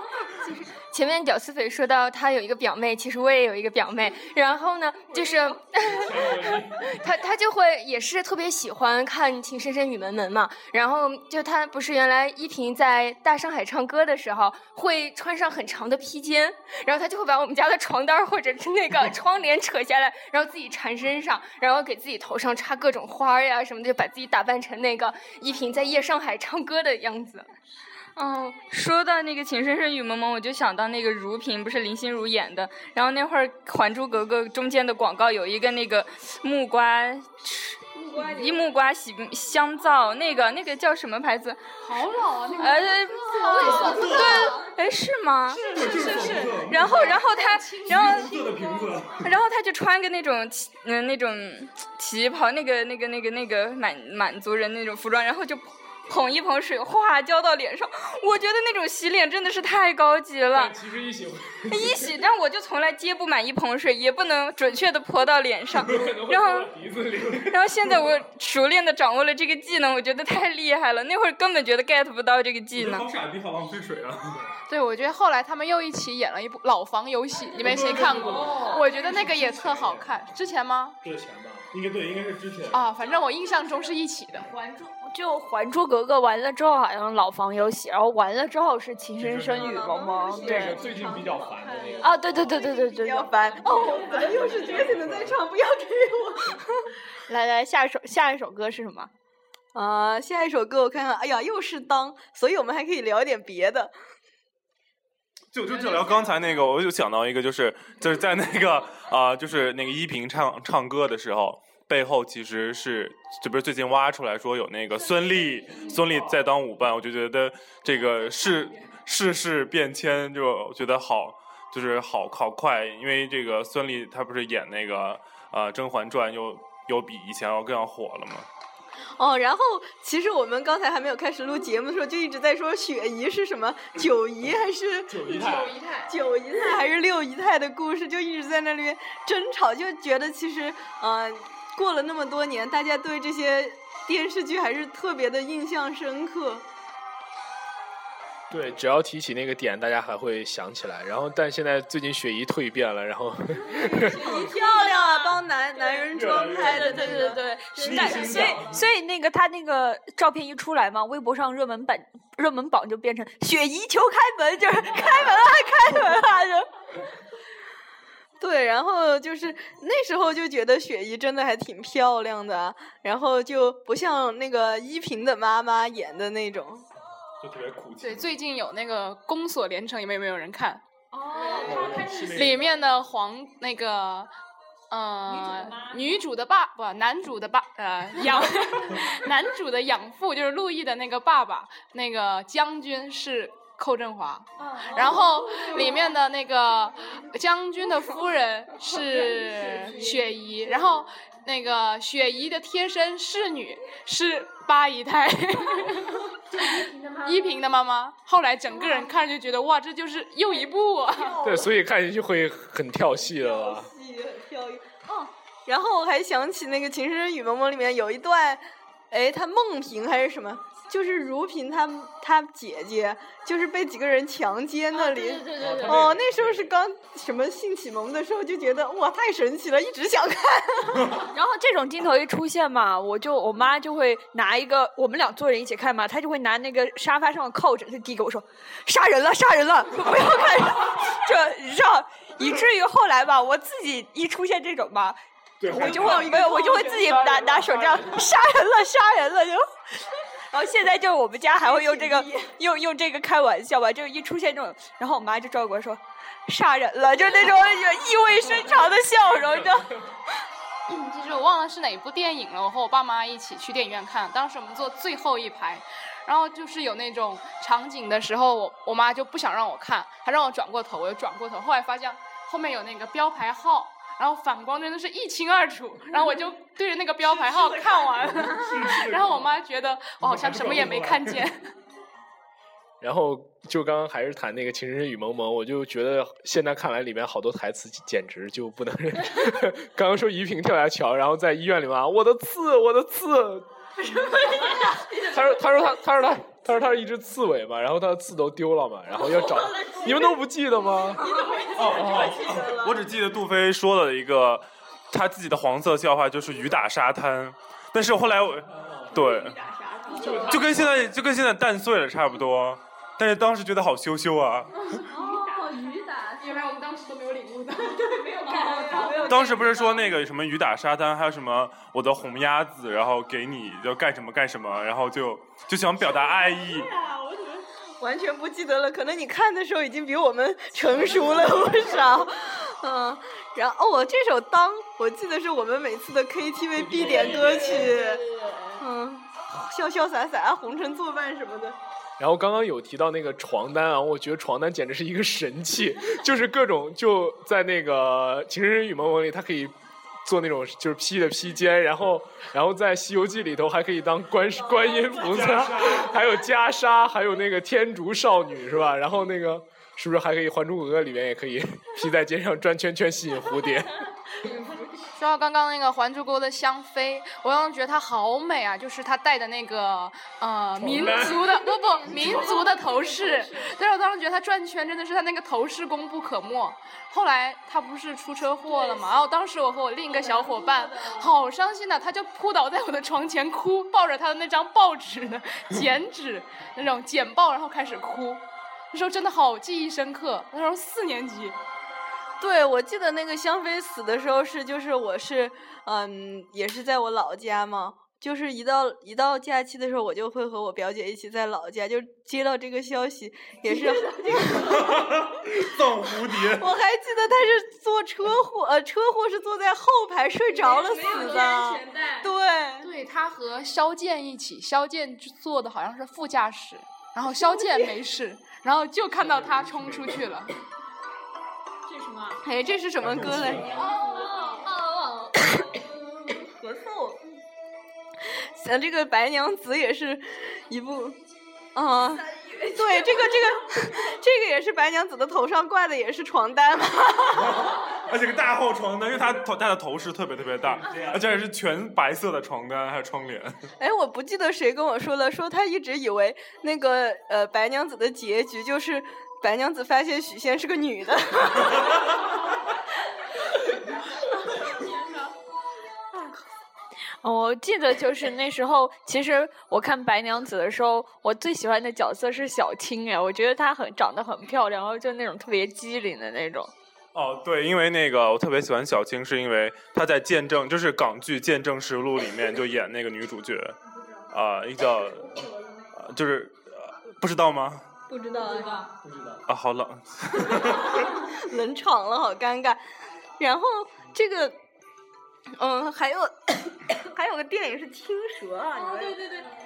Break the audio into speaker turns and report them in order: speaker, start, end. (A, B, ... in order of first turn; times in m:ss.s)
0:00.4-0:27.5 A
0:05.8-0:06.9 B
0:28.2-0:41.6 C
0:41.8-0:44.6 D
0:42.6-0:48.3 C
0:43.3-0:44.4 E
0:44.0-0:44.2 F
0:45.5-0:48.4 D
0:45.7-0:47.1 F
0:47.9-0:49.3 F
0:49.2-1:00.8 C
1:00.5-1:02.1 B
1:01.7-1:06.7 C
1:05.8-1:08.0 B
1:07.4-1:13.1 C
1:12.8-1:14.4 F
1:14.7-1:21.0 D
1:17.6-1:20.2 B
1:21.0-1:21.7 B
1:21.7-1:22.9 F
1:22.7-1:24.5 D
1:24.7-1:30.8 G
1:29.2-1:29.8 B
1:29.6-1:36.9 E
1:30.3-1:32.4 B
1:32.0-1:34.2 G
1:34.8-1:35.3 B
1:37.3-1:39.1 G
1:39.7-1:43.9 E
1:45.5-2:08.5 F
2:09.2-2:26.6 E
2:15.1-2:15.8 B
2:28.5-2:34.2 B
2:33.7-2:38.5 E
2:34.5-2:35.3 G
2:36.1-2:38.8 F
2:36.5-2:46.7 G
2:48.4-2:56.8 E
2:57.4-2:58.3 F
2:58.0-3:00.8 D
3:01.5-3:04.3 D
3:01.6-3:02.7 F
3:04.9-3:31.4 D
3:31.2-3:31.7 E
3:31.4-3:33.9 B
3:33.3-3:51.2 E
3:45.6-3:46.3 B
3:45.9-3:46.1 F
3:51.3-4:09.6 G
4:05.6-4:06.4 F
4:05.7-4:07.5 E
4:10.5-4:19.9 G
4:11.6-4:12.3 E
4:19.4-4:19.8 B
4:20.9-4:41.6 D
4:38.5-4:39.5 F
4:40.2-4:41.4 F
4:43.0-4:53.6 B
4:55.1-5:02.3 B
5:01.3-5:03.0 E
5:01.7-5:09.6 F
5:08.8-5:09.1 B
5:10.0-5:10.4 E
5:10.2-5:14.9 F
5:10.2-5:10.8 B
5:15.1-5:15.8 E
5:15.5-5:15.9 H
5:16.7-5:19.3 H
5:18.5-5:19.9 E
5:19.2-5:26.9 F
5:28.0-5:38.2 E
5:36.8-5:38.0 B
5:38.8-5:41.8 E
5:42.2-5:49.7 B
5:50.2-6:04.0 B
5:55.1-5:56.2 F
6:05.2-6:31.6 D
6:10.8-6:12.7 B
6:32.4-6:45.1 E
6:44.5-6:46.7 F
6:46.3-6:52.9 E
6:50.6-6:52.2 H
6:52.8-7:00.5 D
6:59.2-7:00.1 B
7:02.4-7:04.8 E
7:03.0-7:03.6 F
7:03.8-7:04.1 H
7:06.4-7:07.2 E
7:08.6-7:11.2 E
7:11.7-7:17.7 E
7:17.4-7:23.5 F
7:23.8-7:31.9 E
7:37.2-7:46.7 G
7:47.1-7:53.8 F
7:54.3-7:57.8 F
7:58.1-7:58.9 E
7:59.0-7:59.4 B
7:59.5-8:01.1 F
8:00.9-8:02.8 E
8:03.4-8:04.6 E
8:05.6-8:09.3 E